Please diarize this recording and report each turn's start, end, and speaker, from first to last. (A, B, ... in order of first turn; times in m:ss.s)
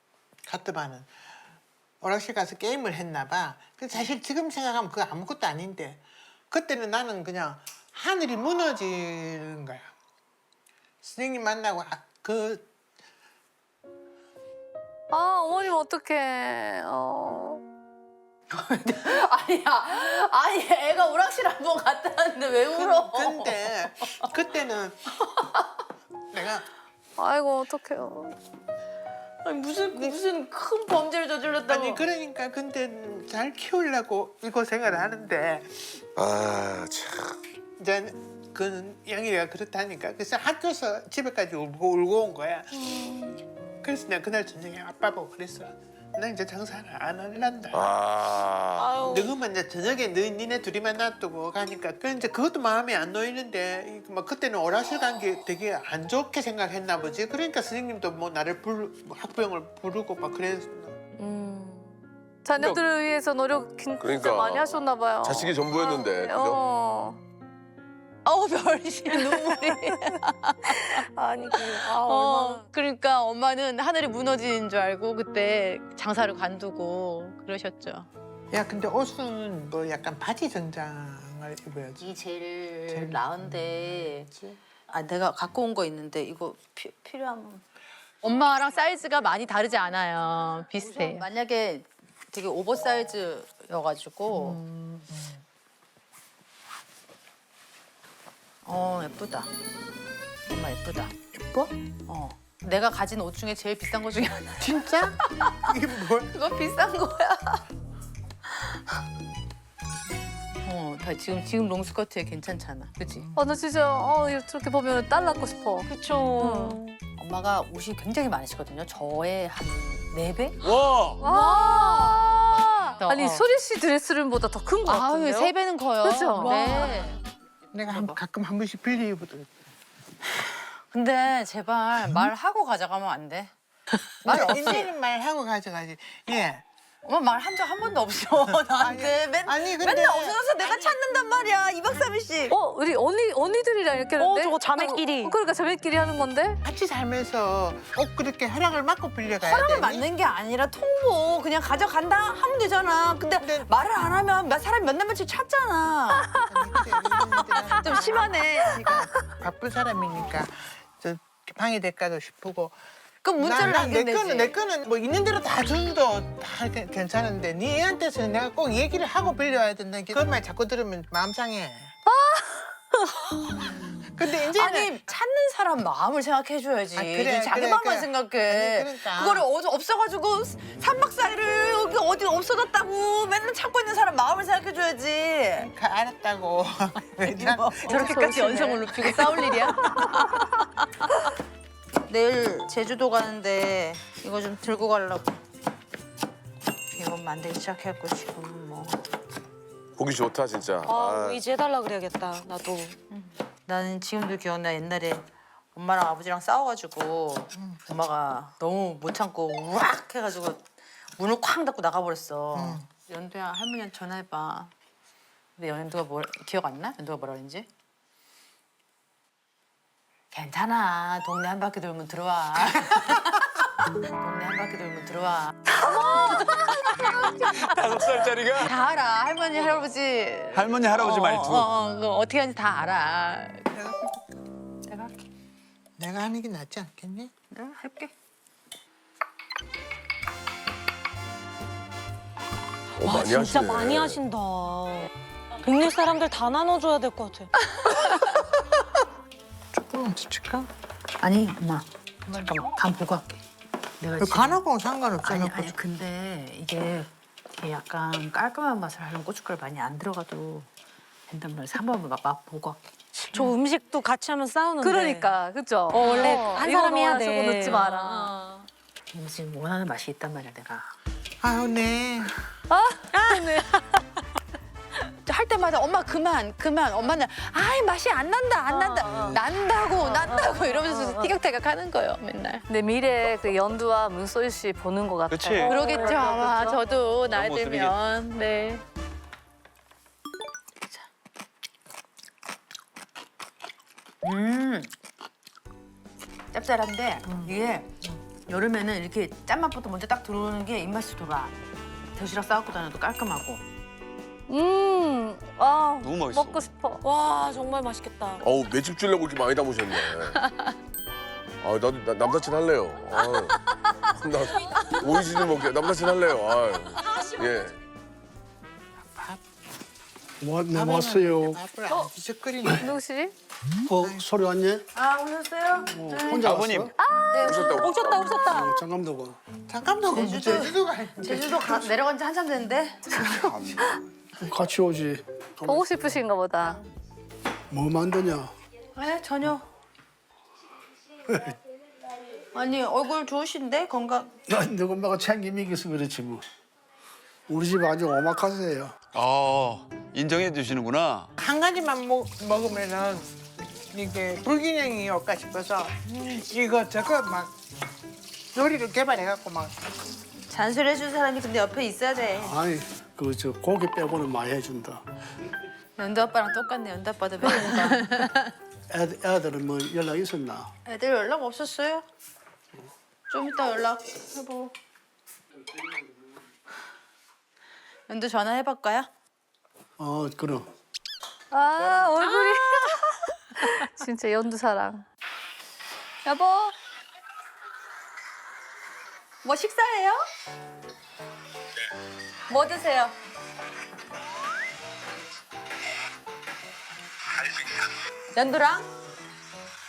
0:00.5-0:01.1 A
0:02.0-0:09.9 A
0:11.0-0:12.7 A
0:15.1-0:17.6 B
0:18.5-0:24.2 C
0:22.7-0:25.0 A
0:26.3-0:26.6 A
0:27.2-0:28.4 B
0:29.4-0:32.0 C
0:31.7-0:36.0 A
0:36.2-0:37.4 D
0:37.8-0:48.0 A
0:47.8-0:48.9 D
0:48.8-0:49.3 E
0:48.9-1:01.0 A
1:01.2-1:01.9 E
1:02.4-1:07.2 B
1:04.0-1:04.7 D
1:05.2-1:06.6 D
1:08.2-1:11.0 C
1:11.2-1:12.6 E
1:11.6-1:18.1 C
1:18.5-1:22.1 A
1:22.0-1:24.3 C
1:22.9-1:24.6 A
1:24.9-1:27.6 C
1:28.2-1:34.6 C
1:34.3-1:35.4 A
1:38.6-1:39.5 C
1:40.5-1:44.7 C
1:44.6-1:46.3 A
1:46.2-1:47.6 C
1:50.6-1:53.3 C
1:53.4-1:55.9 B
1:55.8-1:57.0 E
1:56.4-1:56.8 B
1:57.2-2:00.6 C
2:00.6-2:01.2 F
2:01.2-2:07.0 B
2:01.3-2:02.0 E
2:03.0-2:03.5 C
2:04.8-2:07.2 C
2:07.7-2:09.5 A
2:07.9-2:08.2 C
2:10.9-2:13.5 C
2:14.0-2:14.9 C
2:14.2-2:16.6 A
2:14.3-2:14.8 B
2:17.0-2:22.6 C
2:18.8-2:21.0 A
2:22.5-2:26.6 B
2:24.2-2:25.3 E
2:26.6-2:30.1 A
2:29.4-2:36.3 C
2:33.4-2:33.7 A
2:36.4-2:42.8 A
2:37.8-2:38.8 C
2:43.2-2:44.6 C
2:43.4-2:52.0 A
2:52.1-2:53.0 B
2:54.0-2:55.0 A
2:54.3-3:05.7 C
2:57.0-2:59.4 A
3:05.6-3:10.1 A
3:07.3-3:10.6 C
3:12.1-3:15.4 C
3:16.9-3:19.0 C
3:20.0-3:21.4 D
3:20.8-3:23.0 E
3:23.1-3:30.6 C
3:27.6-3:27.8 A
3:31.2-3:34.7 C
3:32.6-3:32.9 A
3:35.6-3:37.7 C
3:40.3-3:43.5 C
3:44.1-3:47.6 C
3:45.9-3:46.6 E
3:47.6-3:48.7 F
3:48.5-3:54.0 C
3:50.5-3:51.7 F
3:54.9-3:55.3 C
3:56.0-3:57.3 A
3:57.5-3:58.1 C
4:03.0-4:04.2 D
4:03.0-4:05.1 E
4:05.6-4:07.5 E
4:09.7-4:10.7 A
4:11.2-4:13.4 C
4:12.3-4:12.6 A
4:14.0-4:14.6 C
4:14.2-4:15.8 A
4:15.2-4:20.7 C
4:21.3-4:23.5 C
4:23.2-4:25.4 E
4:24.8-4:28.3 B
4:25.9-4:27.9 E
4:26.0-4:26.6 C
4:27.8-4:30.9 C
4:31.4-4:32.3 A
4:32.7-4:33.3 B
4:33.1-4:33.8 E
4:35.1-4:42.6 C
4:38.7-4:39.4 B
4:40.1-4:41.3 B
4:42.7-4:46.8 B
4:45.3-4:45.7 F
4:45.7-4:48.8 C
4:47.3-4:48.0 F
4:54.2-4:54.9 C
4:56.5-4:57.9 C
4:57.3-4:57.5 A
4:58.5-5:01.6 C
5:02.2-5:03.6 C
5:04.5-5:07.0 B
5:06.0-5:06.6 F
5:07.0-5:08.4 E
5:08.4-5:10.4 D
5:11.6-5:13.6 D
5:14.2-5:17.8 D
5:19.0-5:19.4 A
5:20.4-5:21.6 G
5:20.7-5:23.0 A
5:22.8-5:23.3 B
5:23.8-5:24.8 G
5:24.0-5:24.3 A
5:25.0-5:26.5 C
5:25.9-5:26.9 G
5:26.5-5:26.9 F
5:27.0-5:27.9 B
5:27.3-5:28.8 E
5:28.3-5:29.4 G
5:29.7-5:32.0 A
5:30.1-5:33.8 C
5:34.5-5:36.2 G
5:35.7-5:36.8 B
5:37.7-5:38.5 G
5:39.0-5:39.7 C
5:42.5-5:44.4 C
5:44.5-5:46.4 G
5:47.5-5:48.9 G
5:49.1-5:51.3 F
5:51.4-5:57.6 A
5:58.5-5:59.9 A
6:00.5-6:02.6 C
6:02.4-6:05.0 G
6:06.0-6:08.5 C
6:08.9-6:10.7 G
6:10.9-6:12.1 C
6:13.3-6:14.7 C
6:18.1-6:19.1 C
6:20.0-6:20.7 G
6:21.5-6:25.0 B
6:26.3-6:26.7 C
6:29.4-6:30.2 C
6:32.5-6:33.2 C
6:38.3-6:38.9 C